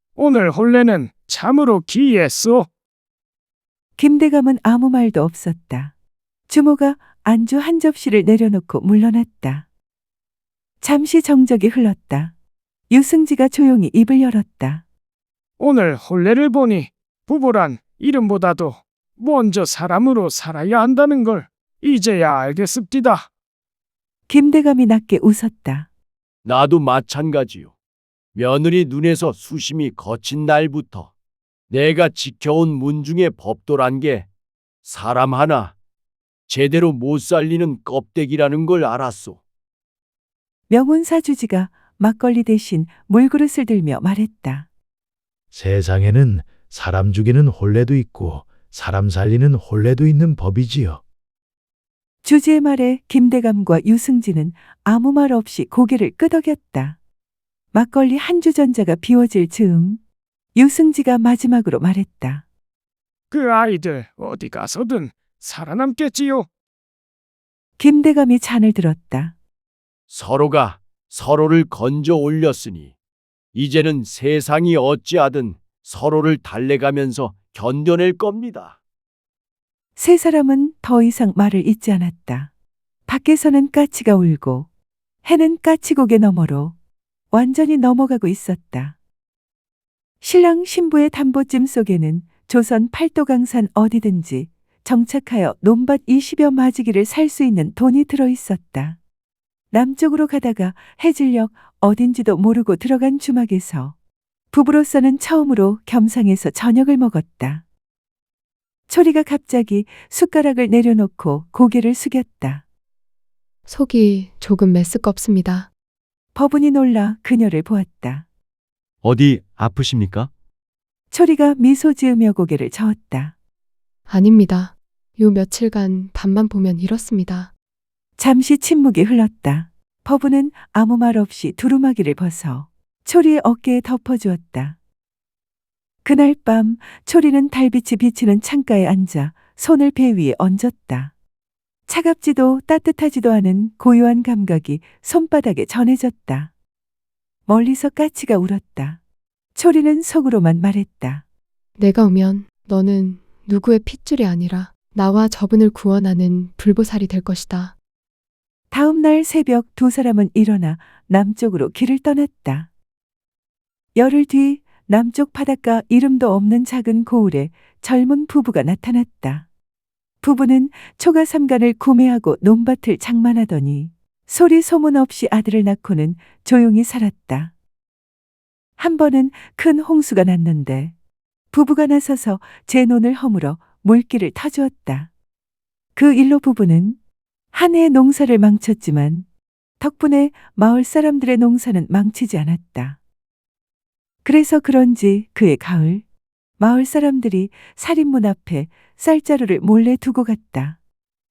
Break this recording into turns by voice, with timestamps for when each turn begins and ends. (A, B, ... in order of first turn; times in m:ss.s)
0:00.2-0:02.7 A
0:04.0-0:05.9 B
0:06.5-0:09.6 B
0:10.8-0:12.3 B
0:12.9-0:14.8 B
0:15.6-0:23.3 A
0:24.3-0:25.9 B
0:26.4-0:27.7 C
0:28.4-0:31.1 C
0:31.7-0:34.3 C
0:34.8-0:35.8 C
0:36.5-0:39.4 C
0:40.7-0:44.7 B
0:45.5-0:51.0 D
0:52.2-0:57.0 B
0:57.7-1:00.0 B
1:00.6-1:02.4 B
1:03.3-1:06.5 A
1:07.8-1:09.3 B
1:10.1-1:12.9 C
1:13.5-1:18.8 C
1:20.0-1:22.5 B
1:23.1-1:24.7 B
1:25.3-1:26.8 B
1:27.3-1:29.0 B
1:30.2-1:39.0 B
1:39.7-1:44.0 B
1:44.5-1:47.6 B
1:48.9-1:52.6 B
1:53.7-1:55.7 E
1:56.4-1:58.3 B
1:59.0-2:00.3 C
2:01.1-2:03.3 B
2:04.1-2:07.5 E
2:08.2-2:14.8 B
2:16.0-2:21.1 B
2:21.9-2:26.5 B
2:27.5-2:29.0 B
2:29.6-2:31.2 B
2:31.8-2:37.8 E
2:38.7-2:42.7 B
2:44.0-2:49.5 B
2:50.2-2:57.5 B
2:58.8-3:00.9 B
3:01.5-3:05.1 B
3:06.0-3:07.0 B
3:07.5-3:09.2 B
3:09.8-3:13.0 B
3:14.2-3:16.0 B
3:16.6-3:20.8 B